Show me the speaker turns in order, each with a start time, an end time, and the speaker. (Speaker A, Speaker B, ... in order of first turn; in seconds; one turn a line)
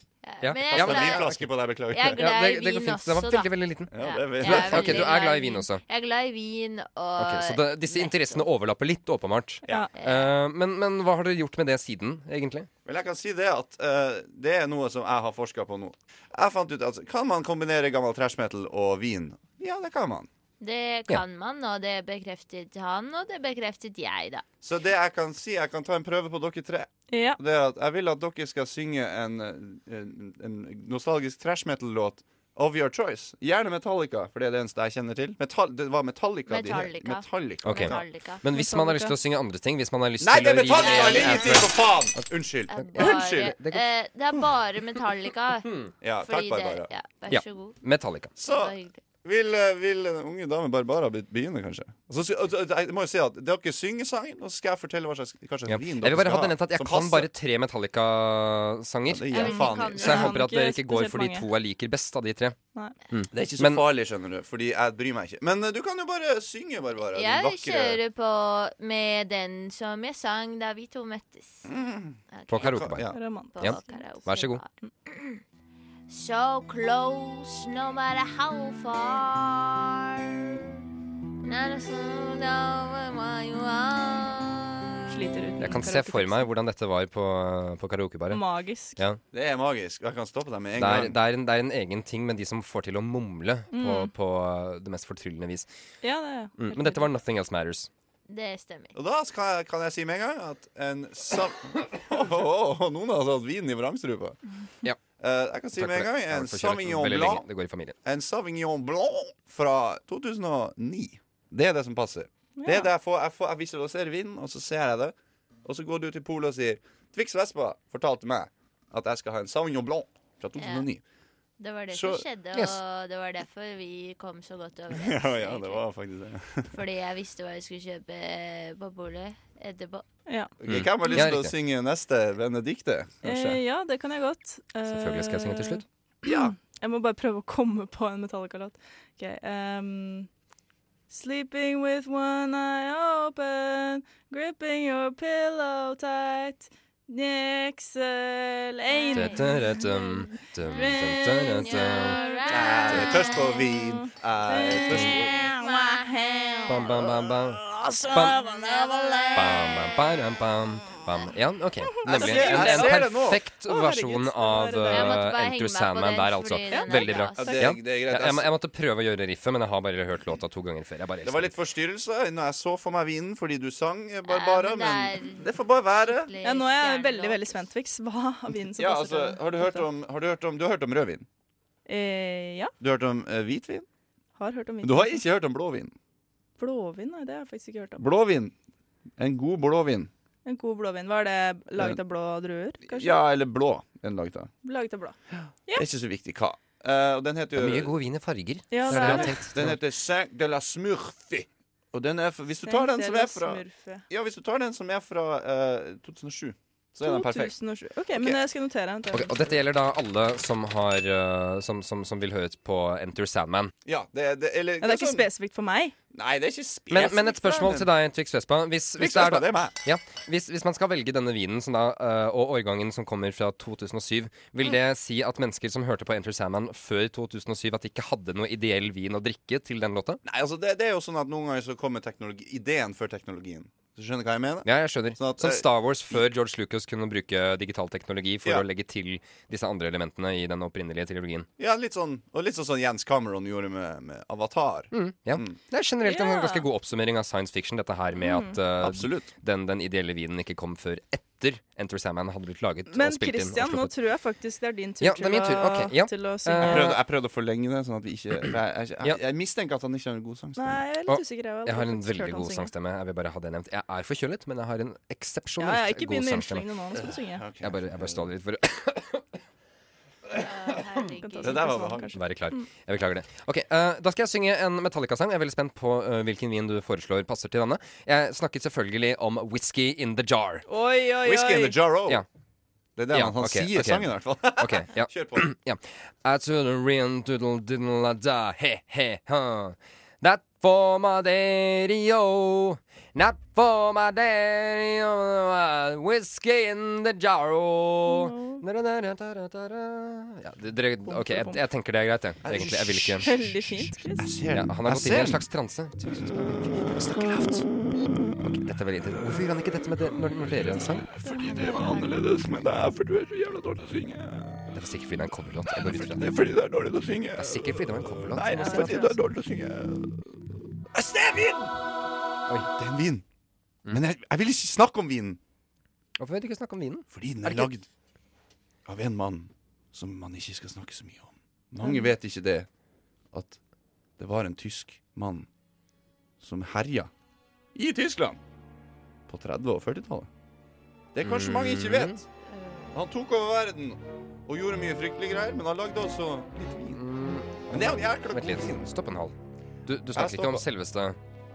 Speaker A: 0.2-1.4
Speaker B: 0.4-1.5
Speaker C: 0.7-2.2
Speaker A: 1.9-8.5
Speaker B: 2.2-5.8
Speaker C: 3.9-5.1
Speaker B: 7.2-12.7
Speaker A: 9.9-10.3
Speaker C: 12.8-20.3
Speaker A: 20.6-24.4
Speaker C: 24.6-38.0
Speaker D: 27.1-27.4
Speaker A: 36.5-38.4
Speaker B: 37.6-43.8
Speaker D: 38.5-39.1
Speaker C: 40.2-43.5
Speaker A: 40.7-41.7
Speaker A: 42.7-47.8
Speaker C: 46.0-46.9
Speaker B: 47.3-48.3
Speaker C: 48.4-57.3
Speaker A: 48.4-49.0
Speaker B: 55.7-62.6
Speaker C: 59.0-60.3
Speaker A: 59.3-60.2
Speaker D: 59.4-61.5
Speaker B: 63.1-63.8
Speaker C: 63.3-68.0
Speaker A: 67.1-71.7
Speaker C: 71.7-73.2
Speaker A: 72.3-72.9
Speaker B: 72.5-73.1
Speaker D: 73.1-74.0
Speaker A: 73.5-75.4
Speaker B: 73.6-74.6
Speaker A: 76.1-80.4
Speaker A: 81.4-85.2
Speaker D: 85.1-86.5
Speaker B: 85.6-88.4
Speaker D: 88.3-89.0
Speaker C: 89.3-91.2
Speaker B: 90.8-95.7
Speaker D: 93.7-94.1
Speaker D: 96.0-97.0
Speaker B: 96.6-97.9
Speaker A: 98.3-98.9
Speaker C: 98.9-104.4
Speaker C: 105.2-107.5
Speaker B: 105.7-107.9
Speaker C: 108.0-115.1
Speaker D: 112.6-112.9
Speaker C: 115.6-121.0
Speaker A: 120.6-120.9
Speaker A: 121.6-125.8
Speaker C: 121.9-122.2
Speaker C: 124.9-126.7
Speaker A: 126.7-130.0
Speaker D: 130.3-130.5
Speaker C: 130.6-133.6
Speaker B: 130.7-131.5
Speaker D: 133.2-140.3
Speaker B: 134.9-135.8
Speaker C: 136.2-136.5
Speaker D: 141.1-156.9
Speaker A: 148.9-149.6
Speaker B: 149.1-152.2
Speaker A: 151.5-153.6
Speaker C: 152.5-155.4
Speaker B: 154.9-155.2
Speaker A: 155.3-157.1
Speaker B: 156.7-158.4
Speaker D: 157.8-159.7
Speaker A: 158.2-159.6
Speaker B: 159.3-171.5
Speaker C: 162.0-163.4
Speaker D: 162.1-163.0
Speaker D: 163.6-165.2
Speaker A: 164.9-167.6
Speaker D: 166.7-167.7
Speaker C: 167.3-168.5
Speaker C: 171.2-176.3
Speaker A: 174.2-177.7
Speaker D: 176.4-179.8
Speaker C: 178.7-181.2
Speaker D: 181.8-182.7
Speaker C: 182.8-183.8
Speaker D: 184.4-185.2
Speaker C: 184.8-185.9
Speaker D: 186.6-188.0
Speaker C: 188.0-188.5
Speaker C: 189.2-190.1
Speaker D: 190.4-193.1
Speaker C: 192.8-194.5
Speaker D: 194.6-195.2
Speaker C: 195.4-197.9
Speaker B: 197.6-199.8
Speaker D: 198.7-199.5
Speaker C: 198.9-207.5
Speaker D: 202.7-204.0
Speaker D: 207.0-209.5
Speaker C: 208.1-208.4
Speaker B: 209.1-213.7
Speaker C: 213.8-215.3
Speaker D: 214.8-215.9
Speaker C: 216.1-217.9
Speaker B: 216.9-230.2
Speaker C: 219.0-219.8
Speaker C: 230.2-236.2
Speaker B: 234.6-241.5
Speaker C: 241.6-245.6
Speaker B: 244.9-253.9
Speaker D: 246.0-246.7
Speaker D: 248.2-248.6
Speaker C: 248.8-249.3
Speaker D: 252.9-256.8
Speaker B: 255.0-257.0
Speaker C: 256.6-260.8
Speaker D: 260.6-262.7
Speaker B: 261.1-266.6
Speaker D: 265.6-267.4
Speaker C: 266.9-268.3
Speaker B: 267.6-269.3
Speaker A: 270.3-271.7
Speaker D: 271.0-272.6
Speaker C: 271.4-272.2
Speaker B: 272.1-280.6
Speaker D: 280.7-281.8
Speaker C: 281.2-282.2
Speaker C: 283.0-285.5
Speaker B: 283.1-303.3
Speaker D: 298.1-298.6
Speaker D: 301.0-301.6
Speaker C: 302.4-305.5
Speaker D: 303.2-304.3
Speaker B: 304.5-307.7
Speaker C: 306.7-307.7
Speaker B: 308.4-311.1
Speaker C: 310.4-314.7
Speaker D: 311.2-312.1
Speaker A: 311.7-312.1
Speaker B: 314.7-316.4
Speaker C: 315.9-320.4
Speaker B: 317.4-319.1
Speaker D: 318.5-319.1
Speaker C: 320.9-321.7
Speaker C: 322.7-323.2
Speaker C: 323.9-325.4
Speaker B: 326.2-327.7
Speaker C: 327.1-327.9
Speaker C: 328.9-332.7
Speaker D: 331.8-332.1
Speaker C: 333.3-333.6
Speaker C: 334.2-335.5
Speaker C: 336.4-337.1
Speaker C: 337.7-338.4
Speaker C: 339.3-340.3
Speaker C: 341.1-342.2
Speaker B: 341.2-342.2
Speaker A: 342.5-343.0
Speaker C: 342.9-347.0
Speaker B: 346.9-349.3
Speaker C: 347.7-348.9
Speaker B: 349.8-351.2
Speaker C: 350.1-350.6